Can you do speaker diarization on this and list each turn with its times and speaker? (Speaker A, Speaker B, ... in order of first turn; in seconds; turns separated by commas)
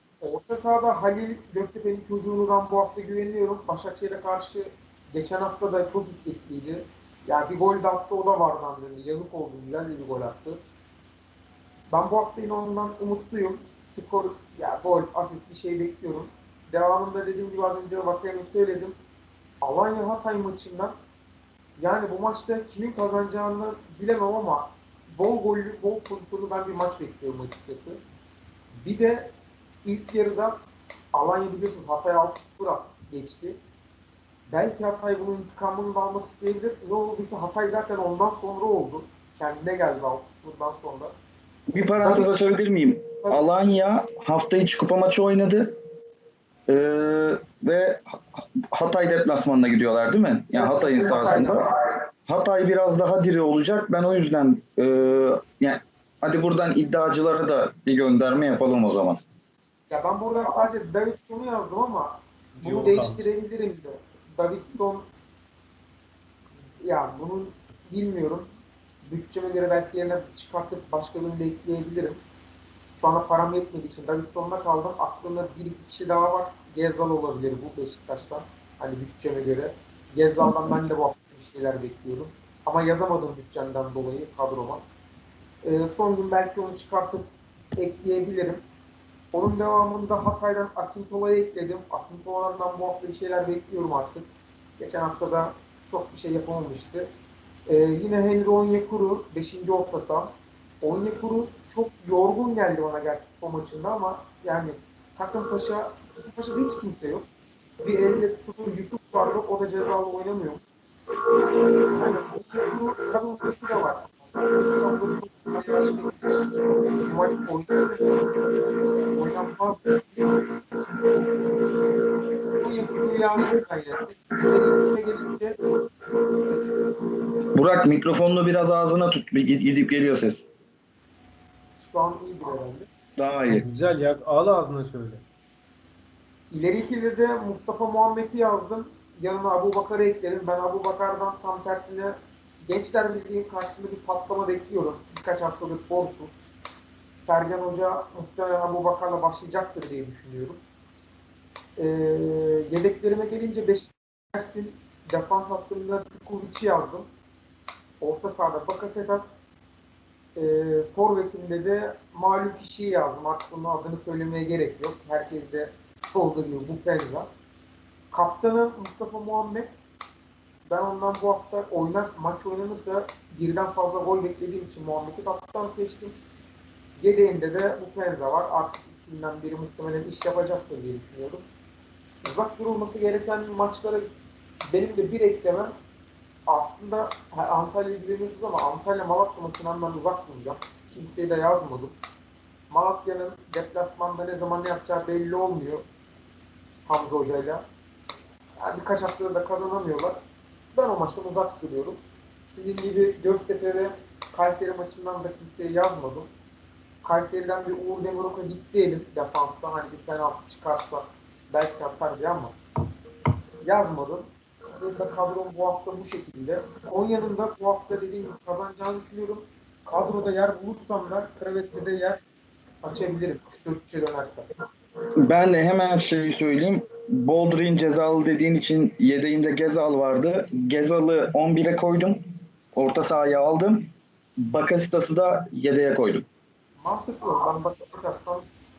Speaker A: 0.2-10.6, Speaker A: 11.9-18.9, Speaker A: 19.6-20.9, Speaker A: 21.8-28.0, Speaker A: 28.8-29.3, Speaker A: 29.8-30.6, Speaker A: 31.1-33.6, Speaker A: 34.5-41.1, Speaker B: 41.7-45.8, Speaker A: 42.0-42.3, Speaker B: 46.7-59.2, Speaker A: 50.5-51.6, Speaker A: 59.9-65.1, Speaker C: 62.6-63.3, Speaker A: 66.8-68.5, Speaker A: 69.0-72.2, Speaker A: 73.0-84.8, Speaker A: 85.6-88.6, Speaker A: 89.3-94.3, Speaker A: 94.8-97.1, Speaker A: 97.7-107.2, Speaker A: 107.8-110.7, Speaker A: 111.8-120.5, Speaker A: 122.5-125.6, Speaker B: 127.5-130.4, Speaker A: 131.8-132.9, Speaker B: 133.2-133.6, Speaker C: 133.4-135.2, Speaker A: 136.5-146.3, Speaker A: 147.2-150.6, Speaker A: 151.8-157.1, Speaker A: 158.0-159.2, Speaker A: 160.4-167.3, Speaker A: 168.1-169.7, Speaker A: 170.7-176.2, Speaker A: 177.0-181.4, Speaker A: 182.2-184.1, Speaker A: 184.7-185.7, Speaker A: 186.5-191.9, Speaker A: 192.7-195.9, Speaker A: 196.9-197.6, Speaker A: 198.6-200.2, Speaker A: 200.7-202.0, Speaker A: 202.5-206.3, Speaker A: 207.0-212.5, Speaker A: 213.6-222.2, Speaker A: 222.8-224.5, Speaker B: 225.2-233.9, Speaker B: 234.4-236.2, Speaker A: 236.8-238.5